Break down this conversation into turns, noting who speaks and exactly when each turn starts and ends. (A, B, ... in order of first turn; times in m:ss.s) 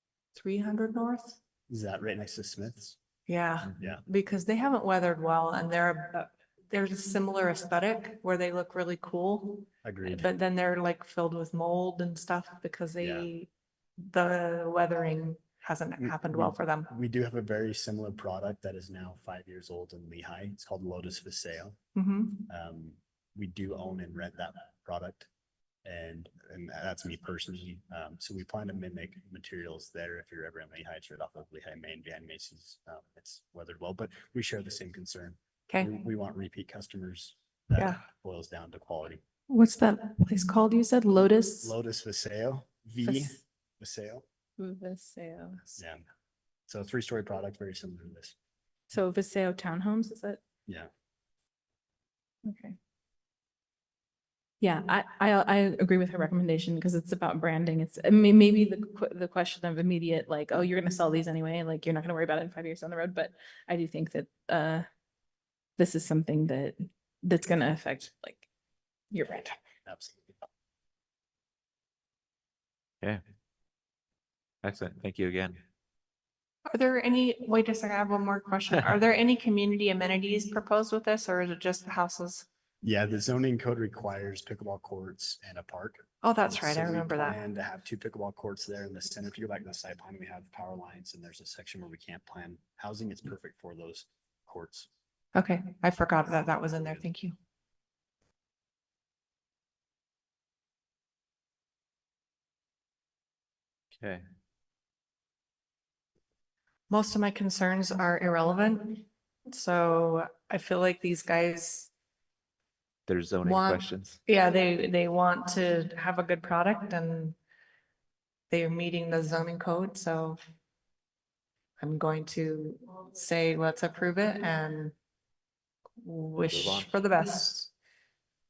0:00.3-0:01.4 A
0:01.7-0:03.0 B
0:03.3-0:16.9 A
0:03.8-0:04.0 B
0:09.8-0:10.3 B
0:13.0-0:13.3 B
0:16.0-0:21.8 B
0:21.9-0:22.5 A
0:22.5-0:25.3 B
0:25.8-0:39.2 B
0:35.7-0:36.0 A
0:37.8-0:38.0 A
0:39.5-0:41.7 C
0:41.6-0:44.2 B
0:43.0-0:43.4 C
0:44.6-0:45.8 C
0:45.8-0:46.0 B
0:46.7-0:48.3 B
0:48.9-0:50.4 C
0:52.4-0:52.8 C
0:54.6-1:04.8 C
1:05.8-1:08.4 C
1:09.1-1:09.5 C
1:09.8-1:10.3 B
1:14.6-1:15.6 D
1:16.7-1:22.4 A
1:22.8-1:34.9 B
1:26.2-1:27.4 A
1:35.3-1:37.3 A
1:36.8-1:37.0 B
1:44.0-1:44.2 D
1:46.9-1:51.9 A
1:53.1-1:54.2 D
1:53.4-1:57.4 A
1:58.5-2:00.4 A
2:01.8-2:04.9 A
2:06.0-2:07.7 A
2:06.5-2:06.9 D